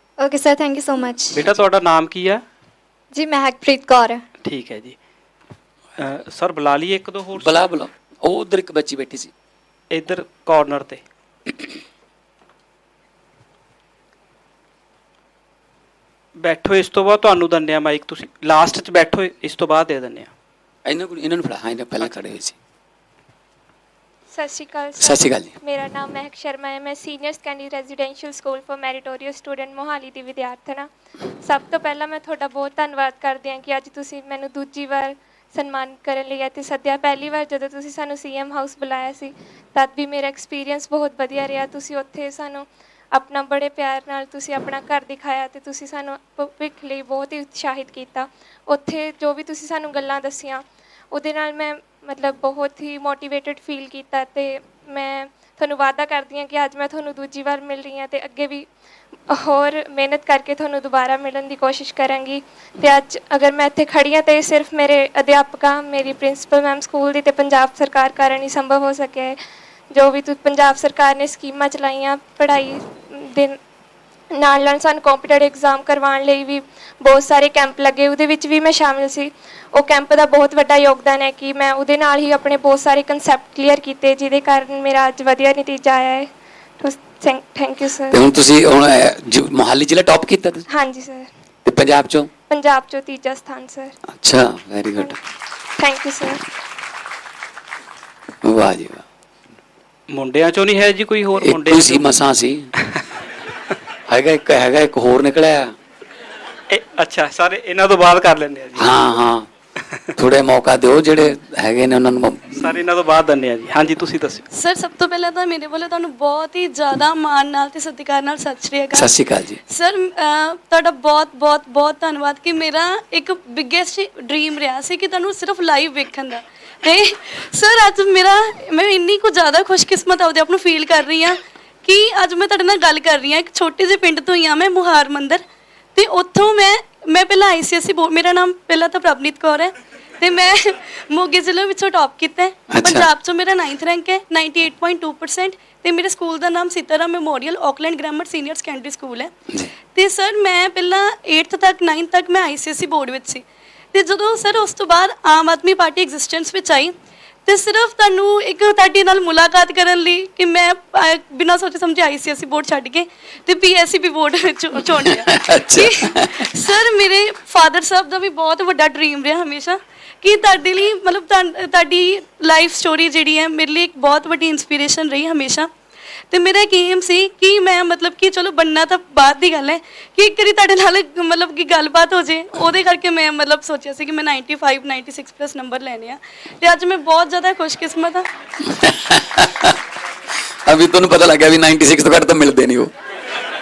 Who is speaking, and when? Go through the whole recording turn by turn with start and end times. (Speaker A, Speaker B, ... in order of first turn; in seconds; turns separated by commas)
Speaker A: 0.2-1.5, Speaker B: 1.4-2.4, Speaker A: 3.1-4.2, Speaker B: 4.4-5.0, Speaker B: 6.0-7.5, Speaker C: 7.4-9.3, Speaker B: 9.9-11.0, Speaker B: 16.4-20.3, Speaker C: 20.9-22.6, Speaker D: 24.3-30.9, Speaker C: 25.0-25.6, Speaker D: 31.4-58.7, Speaker D: 59.3-69.4, Speaker D: 69.9-73.6, Speaker D: 74.4-88.2, Speaker C: 88.1-90.7, Speaker D: 90.7-91.3, Speaker C: 91.7-92.3, Speaker D: 92.5-94.0, Speaker C: 94.1-95.2, Speaker D: 95.8-96.4, Speaker C: 98.4-99.0, Speaker B: 100.1-102.1, Speaker C: 101.4-102.7, Speaker C: 104.1-105.7, Speaker B: 106.7-108.9, Speaker C: 108.8-109.5, Speaker C: 110.2-112.7, Speaker B: 112.5-114.5, Speaker E: 114.5-119.1, Speaker C: 118.9-119.6, Speaker E: 119.7-135.4, Speaker E: 135.9-149.3, Speaker C: 142.7-143.1, Speaker E: 149.9-156.9, Speaker E: 157.5-175.7, Speaker C: 165.1-166.4, Speaker E: 176.3-188.3, Speaker C: 188.7-189.8, Speaker C: 190.7-192.9